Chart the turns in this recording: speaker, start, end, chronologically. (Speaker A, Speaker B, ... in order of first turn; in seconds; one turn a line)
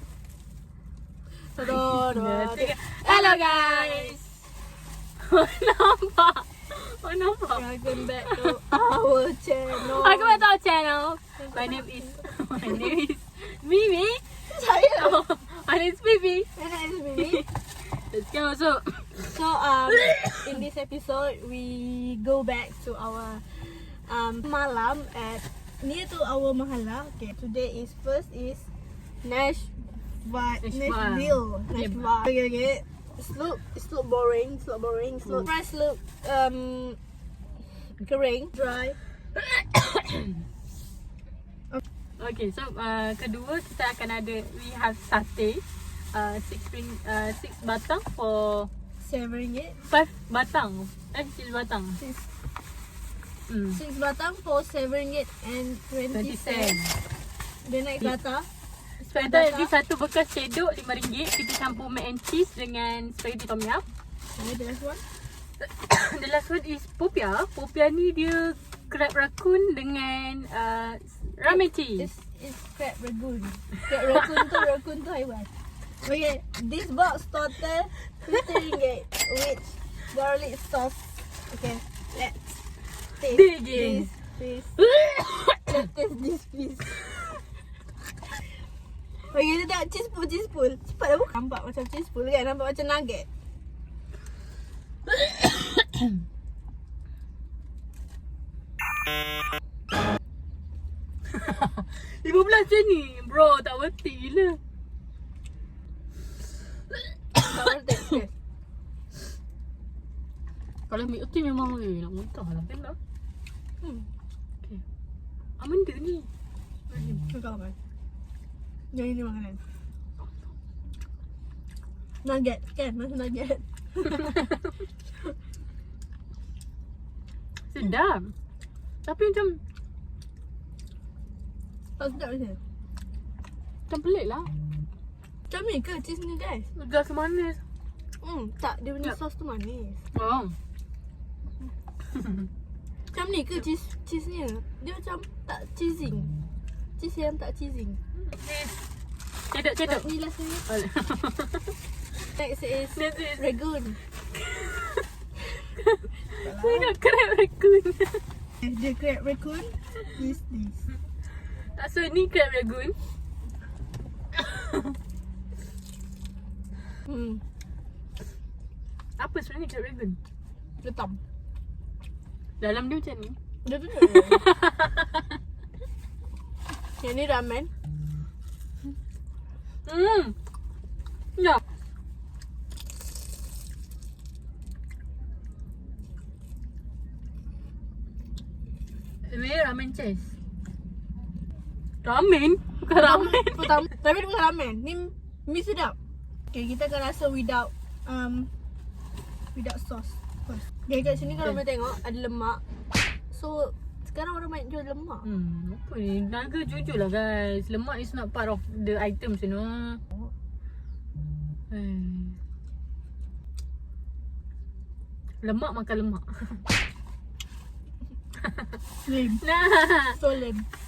Speaker A: 1.4-4.2
Speaker B: 1.6-4.4
Speaker B: 5.2-7.7
Speaker A: 7.5-10.4
Speaker B: 8.2-8.5
Speaker B: 9.8-14.4
Speaker A: 11.4-11.9
Speaker A: 14.5-15.3
Speaker B: 14.9-16.5
Speaker A: 16.6-17.4
Speaker B: 17.1-20.5
Speaker A: 19.3-28.7
Speaker A: 29.2-37.0
Speaker B: 30.6-32.0
Speaker A: 37.7-39.0
Speaker B: 39.4-40.4
Speaker B: 42.2-48.7
Speaker A: 49.0-49.8
Speaker B: 49.8-52.0
Speaker A: 52.0-52.3
Speaker B: 53.5-53.8
Speaker A: 53.7-56.8
Speaker B: 56.1-57.0
Speaker A: 57.6-58.5
Speaker A: 59.0-59.7
Speaker B: 59.0-63.9
Speaker A: 64.3-65.0
Speaker B: 65.6-72.1
Speaker A: 71.4-75.5
Speaker A: 76.0-82.5
Speaker A: 83.2-84.8
Speaker B: 83.2-84.1
Speaker B: 84.8-85.7
Speaker A: 85.7-87.0
Speaker A: 89.3-93.3
Speaker B: 101.3-104.6
Speaker A: 107.4-108.3
Speaker B: 110.9-113.0
Speaker A: 113.8-114.1
Speaker B: 115.6-116.3
Speaker B: 116.9-117.2
Speaker A: 117.3-117.7
Speaker A: 118.9-119.6
Speaker A: 122.2-124.5
Speaker B: 127.7-128.3
Speaker B: 129.0-129.6
Speaker A: 132.0-132.6
Speaker B: 133.9-134.5
Speaker A: 135.5-136.7
Speaker B: 136.8-137.6
Speaker A: 138.2-140.0
Speaker B: 140.1-140.6
Speaker A: 143.1-146.3
Speaker A: 147.0-148.0
Speaker B: 148.2-148.9
Speaker B: 149.5-150.1
Speaker A: 149.8-150.6
Speaker B: 150.7-151.8
Speaker A: 152.3-154.0
Speaker B: 152.9-153.5
Speaker B: 154.3-155.1
Speaker B: 155.7-158.2
Speaker A: 156.4-156.9
Speaker A: 158.6-160.8
Speaker B: 161.6-162.9
Speaker B: 164.3-164.9
Speaker A: 167.1-167.4
Speaker B: 169.2-170.2
Speaker A: 170.8-171.2
Speaker B: 172.6-173.4
Speaker A: 173.6-174.5
Speaker B: 174.0-175.3
Speaker A: 177.0-177.7
Speaker B: 179.8-180.3
Speaker B: 181.3-181.6
Speaker B: 189.3-190.3
Speaker B: 192.0-193.8
Speaker A: 192.9-195.9
Speaker A: 196.5-198.5
Speaker A: 199.5-202.6
Speaker A: 203.3-205.2
Speaker B: 205.2-210.0
Speaker B: 211.7-212.4
Speaker B: 215.4-216.6
Speaker A: 219.0-219.4
Speaker B: 219.3-220.2
Speaker A: 220.2-220.7